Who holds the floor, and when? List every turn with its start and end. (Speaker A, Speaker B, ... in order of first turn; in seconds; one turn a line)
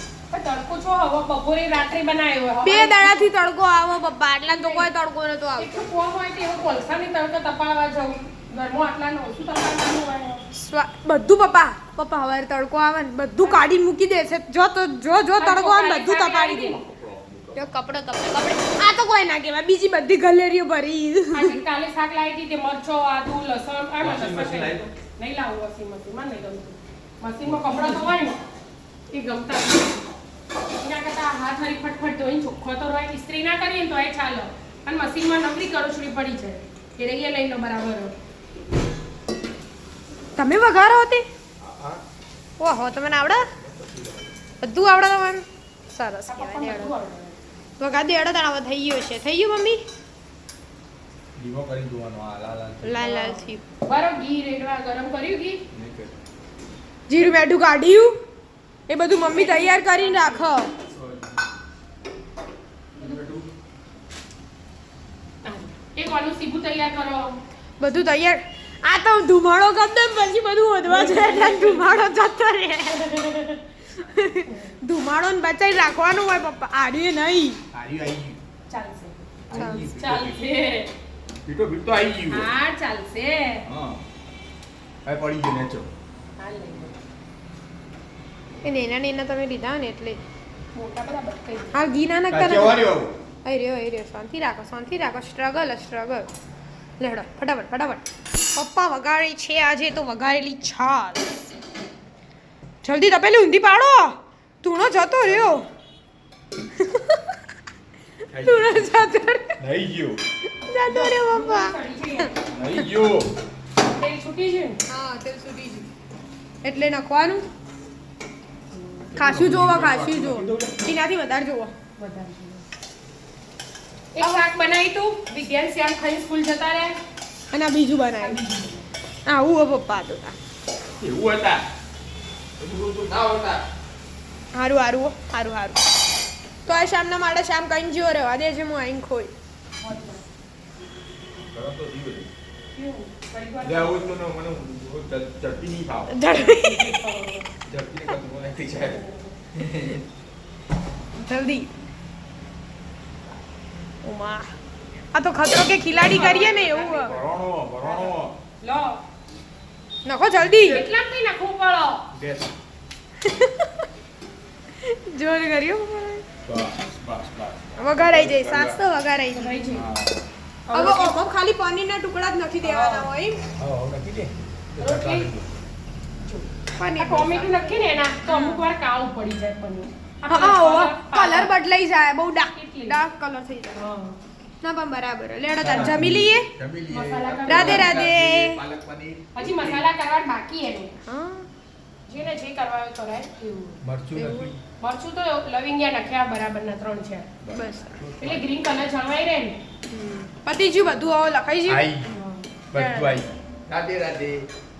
Speaker A: 0.3-3.3
Speaker B: 2.6-5.9
Speaker A: 4.5-4.9
Speaker A: 5.6-10.4
Speaker B: 10.5-16.8
Speaker A: 15.4-16.8
Speaker C: 16.8-17.7
Speaker B: 17.6-21.6
Speaker A: 21.3-28.4
Speaker C: 24.0-24.9
Speaker C: 27.5-28.1
Speaker A: 29.1-30.1
Speaker A: 30.8-38.1
Speaker B: 40.4-41.3
Speaker C: 41.6-42.0
Speaker B: 42.6-43.5
Speaker C: 43.6-44.3
Speaker B: 44.6-46.9
Speaker A: 46.3-47.4
Speaker B: 47.8-49.8
Speaker C: 51.4-53.0
Speaker B: 52.8-53.6
Speaker A: 53.0-55.6
Speaker C: 55.7-56.2
Speaker B: 57.1-58.2
Speaker B: 58.9-60.7
Speaker A: 59.2-60.5
Speaker C: 60.9-61.5
Speaker C: 63.0-63.5
Speaker A: 65.4-67.4
Speaker B: 67.8-77.6
Speaker A: 70.8-72.1
Speaker A: 73.1-73.4
Speaker A: 74.5-74.7
Speaker C: 77.7-78.4
Speaker A: 78.7-80.9
Speaker C: 79.5-80.4
Speaker B: 79.5-79.9
Speaker C: 81.5-82.5
Speaker A: 82.3-83.7
Speaker C: 83.7-84.0
Speaker C: 85.0-85.9
Speaker A: 86.4-87.0
Speaker B: 88.6-90.2
Speaker A: 90.7-91.8
Speaker B: 91.7-92.8
Speaker C: 92.3-93.2
Speaker B: 93.5-96.3
Speaker B: 97.0-101.4
Speaker B: 102.8-105.7
Speaker C: 105.2-105.6
Speaker B: 106.8-107.2
Speaker C: 108.3-108.9
Speaker B: 108.4-109.6
Speaker C: 109.6-110.2
Speaker B: 110.7-112.8
Speaker A: 110.9-112.4
Speaker C: 112.5-113.3
Speaker A: 113.9-114.8
Speaker B: 114.9-115.9
Speaker B: 116.6-117.5
Speaker A: 118.7-119.1
Speaker C: 119.1-120.9
Speaker B: 119.2-121.7
Speaker A: 122.0-122.7
Speaker A: 124.1-127.0
Speaker B: 127.5-128.4
Speaker A: 128.2-128.9
Speaker B: 129.3-130.4
Speaker C: 131.0-131.7
Speaker C: 132.6-133.7
Speaker B: 134.5-136.0
Speaker B: 136.7-139.3
Speaker A: 139.8-140.2
Speaker C: 141.5-142.3
Speaker A: 142.7-144.2
Speaker C: 143.6-146.2
Speaker B: 146.1-147.0
Speaker A: 146.2-147.5
Speaker C: 147.7-149.0
Speaker A: 148.9-149.3
Speaker C: 149.5-150.1
Speaker B: 151.2-151.7
Speaker B: 154.0-154.5
Speaker B: 155.1-157.1
Speaker A: 155.9-157.2
Speaker C: 156.3-158.4
Speaker A: 157.8-159.0
Speaker B: 160.1-160.8
Speaker C: 160.4-160.8
Speaker A: 160.6-162.1
Speaker C: 162.1-162.5
Speaker B: 163.2-163.9
Speaker B: 164.8-166.2
Speaker C: 166.4-168.8
Speaker B: 167.8-169.6
Speaker A: 169.3-169.9
Speaker C: 169.7-170.3
Speaker A: 170.7-171.2
Speaker B: 170.7-173.4
Speaker A: 172.6-173.1
Speaker C: 173.6-175.5
Speaker A: 174.8-175.3
Speaker A: 176.2-181.5
Speaker B: 176.8-177.5
Speaker B: 178.2-178.6
Speaker B: 180.3-183.8
Speaker A: 182.5-183.0
Speaker A: 183.8-184.2
Speaker B: 184.6-186.5
Speaker C: 185.6-189.8
Speaker A: 186.9-188.0
Speaker B: 187.5-188.6
Speaker A: 189.3-191.0
Speaker B: 191.1-191.5
Speaker A: 192.1-193.8
Speaker C: 193.8-194.6
Speaker B: 194.2-194.5
Speaker A: 194.8-197.3
Speaker C: 197.4-198.5
Speaker B: 197.5-198.0
Speaker A: 198.2-199.6
Speaker B: 199.9-201.9
Speaker C: 201.7-202.1
Speaker A: 202.1-203.2
Speaker C: 202.7-204.5